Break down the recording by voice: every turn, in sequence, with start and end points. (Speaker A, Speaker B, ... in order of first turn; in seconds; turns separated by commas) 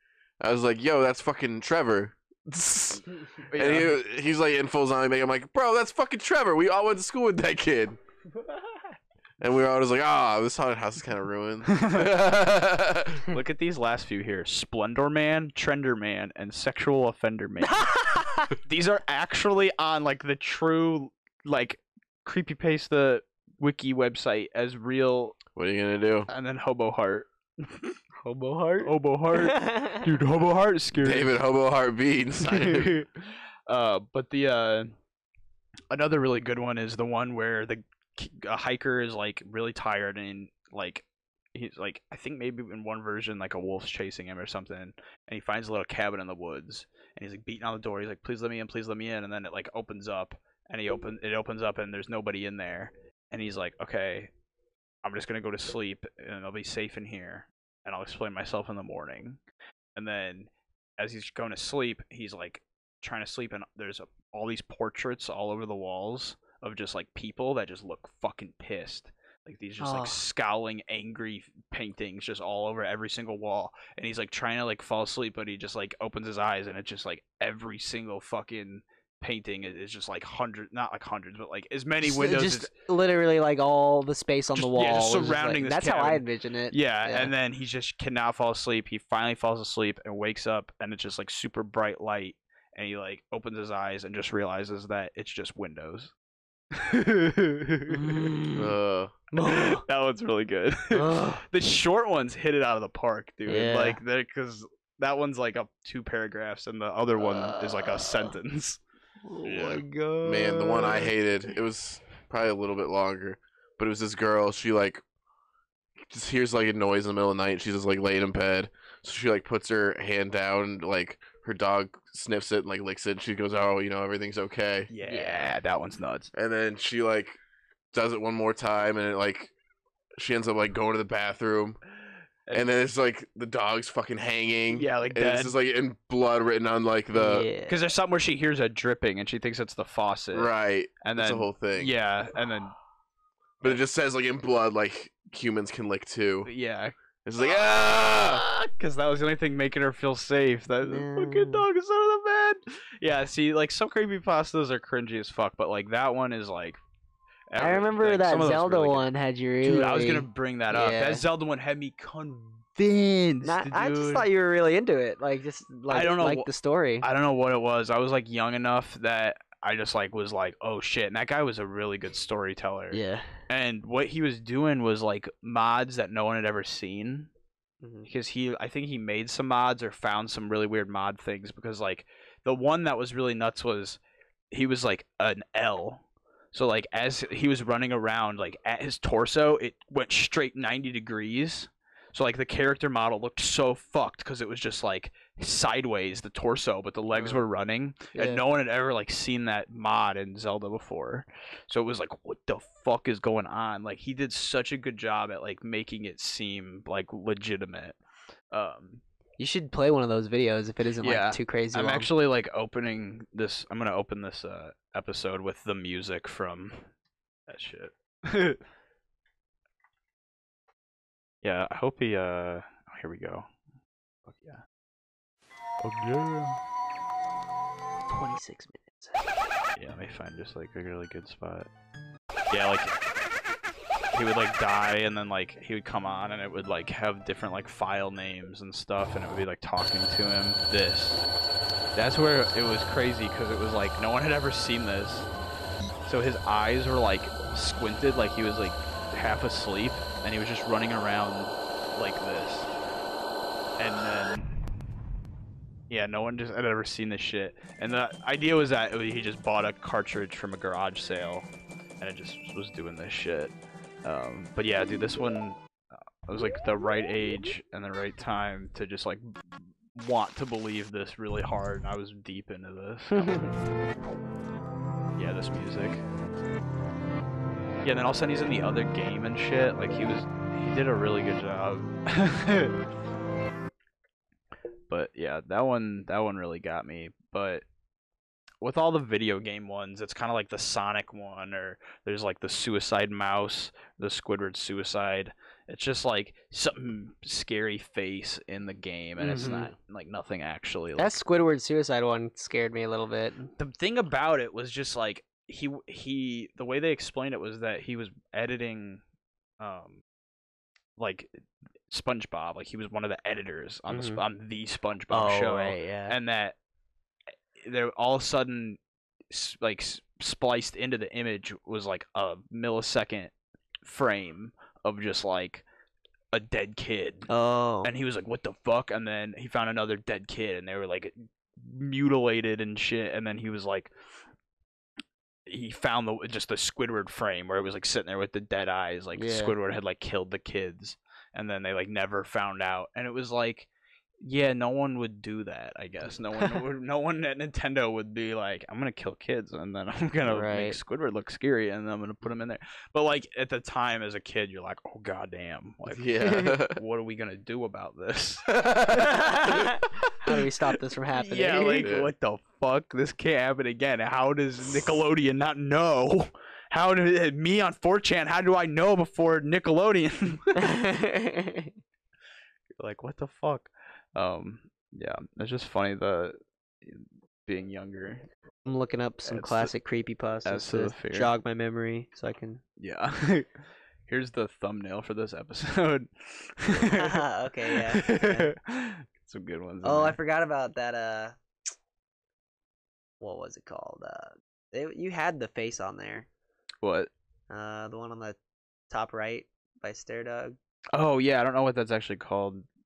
Speaker A: 0.4-8.0, Speaker B: 3.5-4.0, Speaker A: 9.4-13.3, Speaker B: 11.7-12.1, Speaker B: 13.3-18.0, Speaker C: 17.6-18.5, Speaker B: 18.6-25.4, Speaker A: 25.5-26.3, Speaker B: 26.3-27.9, Speaker C: 28.2-30.1, Speaker B: 28.8-31.4, Speaker A: 30.9-33.0, Speaker B: 32.4-34.9, Speaker B: 35.9-54.3, Speaker B: 55.0-59.4, Speaker B: 60.0-82.7, Speaker C: 69.8-70.2, Speaker C: 82.0-87.3, Speaker B: 84.5-96.1, Speaker B: 96.7-98.3, Speaker C: 97.9-98.7, Speaker A: 98.5-99.1, Speaker C: 99.3-99.8, Speaker B: 99.4-108.8, Speaker C: 100.9-101.4, Speaker C: 103.5-104.0, Speaker C: 107.2-108.4, Speaker C: 109.2-111.1, Speaker A: 110.2-115.0, Speaker A: 116.1-124.9, Speaker B: 124.9-126.3, Speaker C: 125.0-125.5, Speaker A: 126.3-127.4, Speaker A: 127.9-129.5, Speaker A: 130.2-131.8, Speaker A: 132.5-137.5, Speaker B: 134.7-135.5, Speaker C: 137.1-137.8, Speaker B: 137.7-142.7, Speaker A: 140.3-141.9, Speaker A: 143.6-146.5, Speaker B: 146.4-156.8, Speaker A: 147.2-148.4, Speaker C: 150.8-151.6, Speaker B: 157.5-159.1, Speaker C: 157.6-161.2, Speaker B: 159.6-164.3, Speaker C: 163.4-167.1, Speaker B: 165.9-166.5, Speaker B: 167.0-177.3, Speaker C: 172.9-173.3, Speaker C: 177.8-178.1, Speaker B: 178.1-184.0, Speaker B: 184.5-186.0, Speaker B: 186.5-208.0, Speaker C: 197.1-197.4, Speaker C: 198.1-198.4, Speaker B: 208.5-209.0, Speaker C: 209.4-212.1, Speaker B: 211.0-216.8, Speaker B: 217.5-218.6, Speaker B: 221.4-223.5, Speaker B: 224.2-224.6, Speaker B: 225.8-226.6, Speaker C: 228.1-229.2, Speaker B: 229.8-231.7, Speaker B: 232.5-233.0, Speaker B: 234.1-241.3, Speaker B: 241.9-245.3, Speaker B: 246.0-252.7, Speaker B: 253.8-254.5, Speaker B: 255.9-261.5, Speaker B: 262.0-273.5, Speaker C: 273.1-273.5, Speaker B: 275.1-276.0, Speaker B: 277.8-282.7, Speaker B: 284.9-287.6, Speaker B: 288.6-301.2, Speaker C: 299.2-299.7, Speaker C: 301.0-303.5, Speaker B: 303.6-309.0, Speaker B: 309.6-310.0, Speaker B: 311.0-311.3, Speaker B: 311.9-316.6, Speaker C: 313.9-314.2, Speaker C: 315.1-316.1, Speaker B: 317.6-318.8, Speaker B: 319.3-323.3, Speaker B: 323.8-325.6, Speaker B: 326.3-327.3, Speaker C: 327.3-327.9, Speaker B: 327.8-333.9, Speaker B: 335.5-343.7, Speaker C: 339.1-339.6, Speaker B: 344.2-358.5, Speaker C: 350.2-350.8, Speaker A: 355.9-356.8, Speaker C: 356.2-356.5, Speaker A: 358.5-359.2, Speaker C: 359.0-361.9, Speaker B: 361.1-370.7, Speaker A: 361.8-362.1, Speaker C: 370.6-371.7, Speaker B: 372.8-378.3, Speaker C: 378.6-382.6, Speaker B: 379.2-379.7, Speaker B: 380.4-381.3, Speaker B: 382.8-383.5, Speaker B: 384.1-390.2, Speaker C: 386.7-388.5, Speaker C: 389.8-391.4, Speaker C: 393.2-396.3, Speaker B: 396.8-397.1, Speaker C: 397.5-398.4, Speaker C: 398.9-400.6, Speaker B: 400.9-402.6